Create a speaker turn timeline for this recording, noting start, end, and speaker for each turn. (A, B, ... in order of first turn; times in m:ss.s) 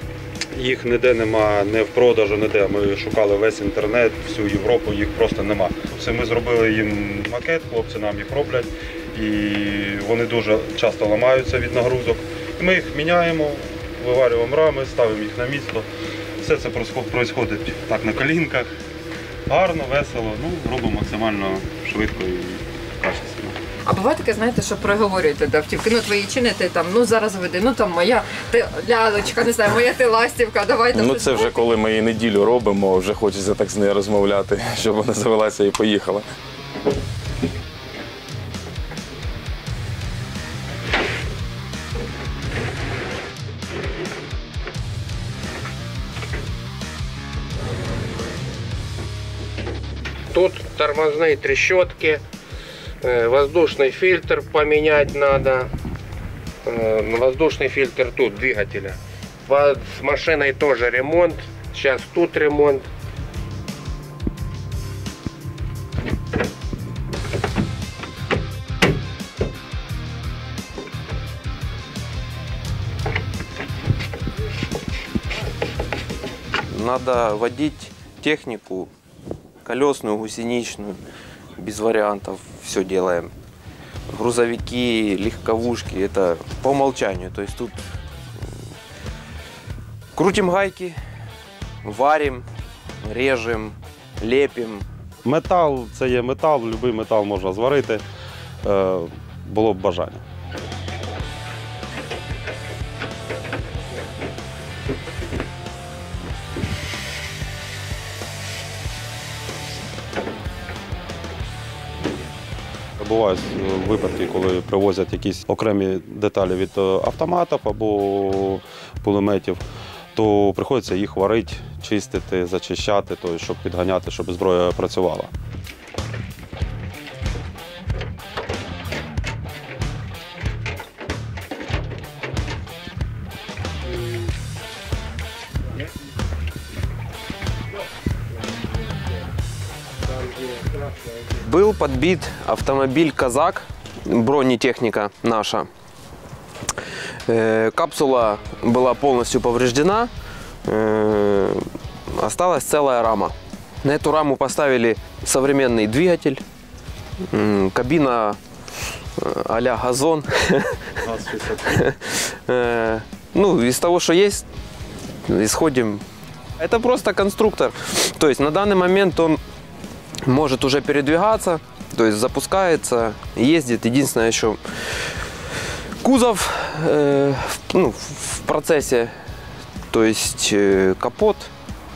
0:00.5-0:15.9 A
0:16.4-0:18.7 A
0:19.5-0:23.6 A
0:23.9-0:31.4 B
0:30.9-0:36.3 C
0:50.3-0:52.2 D
0:53.0-0:55.7 D
0:56.6-1:02.9 D
1:16.7-1:18.9 E
1:19.6-1:21.0 E
1:21.6-1:23.3 E
1:24.1-1:27.8 E
1:30.2-1:31.0 E
1:31.8-1:32.5 E
1:33.0-1:34.9 E
1:35.2-1:38.0 A
1:38.6-1:40.2 A
1:53.0-1:59.6 A
2:00.2-2:05.3 A
2:21.3-2:25.7 E
2:27.2-2:30.1 E
2:30.6-2:36.4 E
2:37.3-2:38.4 E
2:39.2-2:44.5 E
2:41.0-2:41.8 A
2:45.2-2:46.0 E
2:46.6-2:49.4 E
2:50.2-2:55.0 E
2:56.0-2:59.2 E
2:59.9-3:01.5 E